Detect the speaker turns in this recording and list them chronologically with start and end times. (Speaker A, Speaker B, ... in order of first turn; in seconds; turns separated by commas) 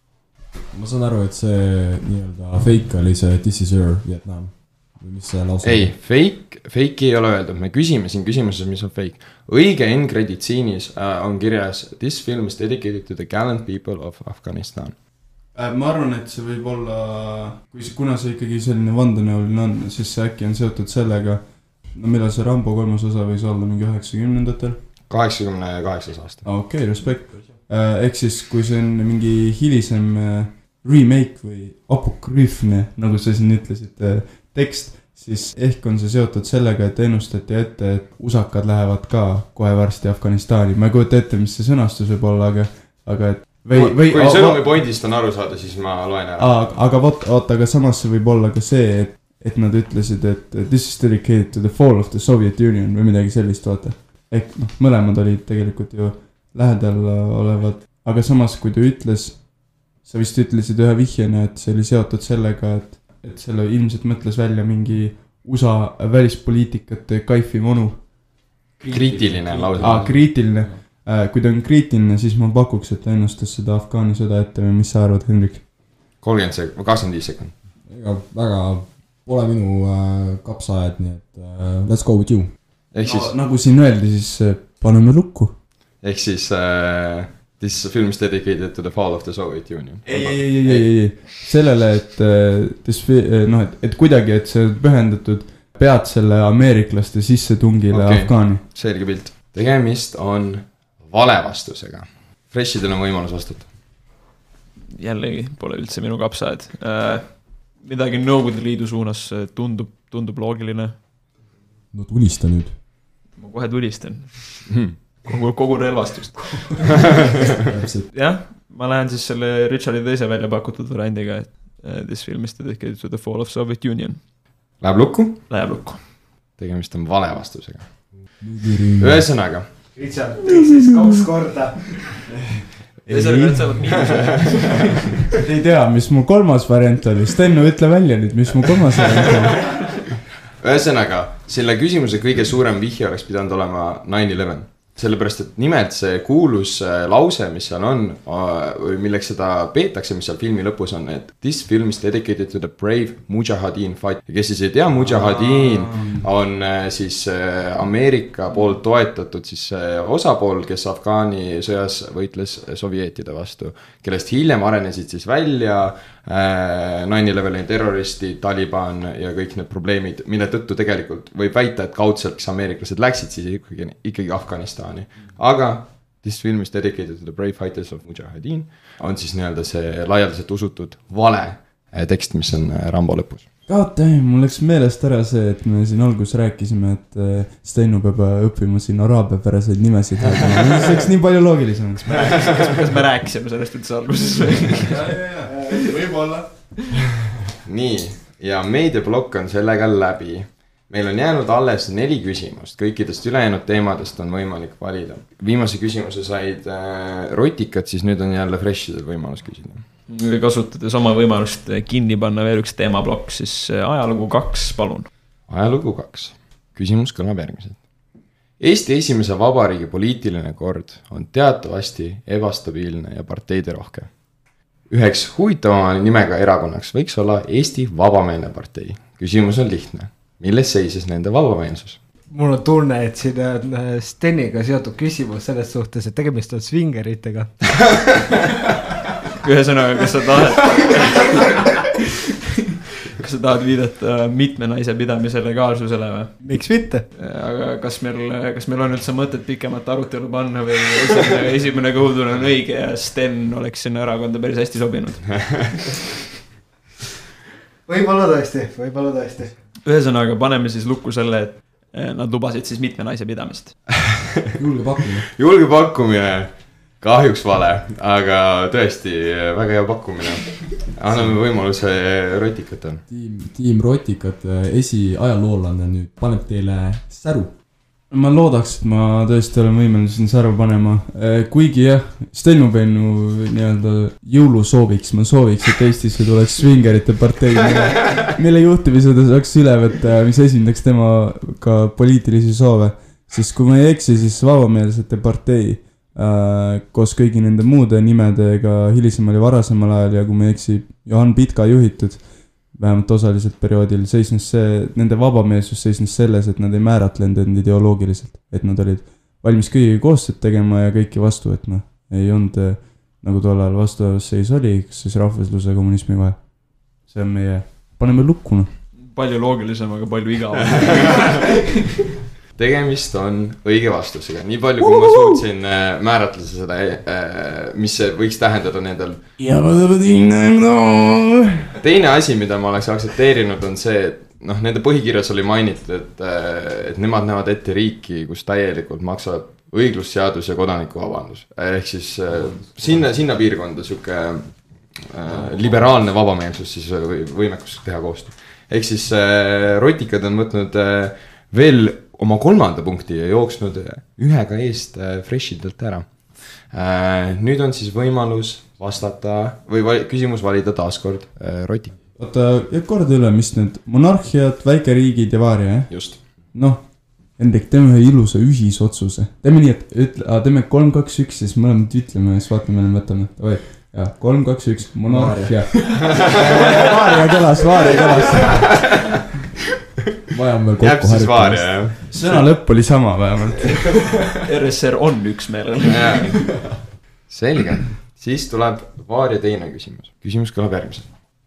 Speaker A: 0.7-5.9, Speaker B: 5.6-14.9, Speaker C: 15.5-24.8, Speaker B: 25.1-26.4, Speaker C: 26.4-44.8, Speaker B: 43.7-46.5, Speaker C: 46.4-68.2, Speaker A: 68.8-70.8, Speaker B: 68.9-70.2, Speaker C: 69.8-75.7, Speaker B: 76.2-77.5, Speaker A: 77.8-82.5, Speaker B: 82.9-83.3, Speaker C: 83.0-85.5, Speaker B: 86.0-91.3, Speaker C: 90.0-98.7, Speaker B: 97.9-103.7, Speaker D: 104.9-111.0, Speaker A: 111.9-112.8, Speaker D: 113.3-117.3, Speaker A: 117.6-118.1, Speaker D: 118.1-124.2, Speaker B: 124.8-125.4, Speaker D: 125.5-126.0, Speaker B: 126.6-127.9, Speaker A: 128.2-129.3, Speaker B: 129.0-129.7, Speaker E: 129.9-132.2, Speaker C: 133.0-134.0, Speaker D: 133.1-135.2, Speaker B: 134.1-134.8, Speaker C: 135.3-139.7, Speaker B: 138.9-139.9, Speaker B: 140.6-183.4, Speaker C: 154.9-156.3, Speaker C: 183.7-192.4, Speaker A: 190.3-190.9, Speaker D: 192.1-195.2, Speaker B: 192.3-192.6, Speaker C: 194.8-197.0, Speaker E: 195.4-195.8, Speaker B: 197.6-209.8, Speaker D: 210.1-215.1, Speaker B: 215.5-217.8, Speaker B: 218.6-224.1, Speaker B: 224.9-232.0, Speaker E: 232.3-237.7, Speaker D: 239.4-242.0, Speaker D: 243.2-255.9, Speaker E: 246.4-247.1, Speaker E: 257.9-259.6, Speaker D: 259.8-263.8, Speaker A: 264.6-265.3, Speaker B: 265.3-273.0, Speaker A: 273.1-277.5, Speaker C: 278.1-318.7, Speaker D: 318.9-321.5, Speaker B: 320.8-321.2, Speaker B: 322.5-329.3, Speaker C: 324.8-325.4, Speaker C: 329.4-331.8, Speaker B: 331.8-362.0, Speaker A: 342.3-343.1, Speaker C: 362.1-378.6, Speaker B: 365.9-366.5, Speaker A: 375.1-379.0, Speaker B: 376.1-376.8, Speaker B: 378.4-378.8, Speaker A: 380.3-381.9, Speaker B: 380.8-382.0, Speaker C: 382.1-384.3, Speaker D: 384.3-386.5, Speaker B: 385.8-386.5, Speaker B: 387.3-391.1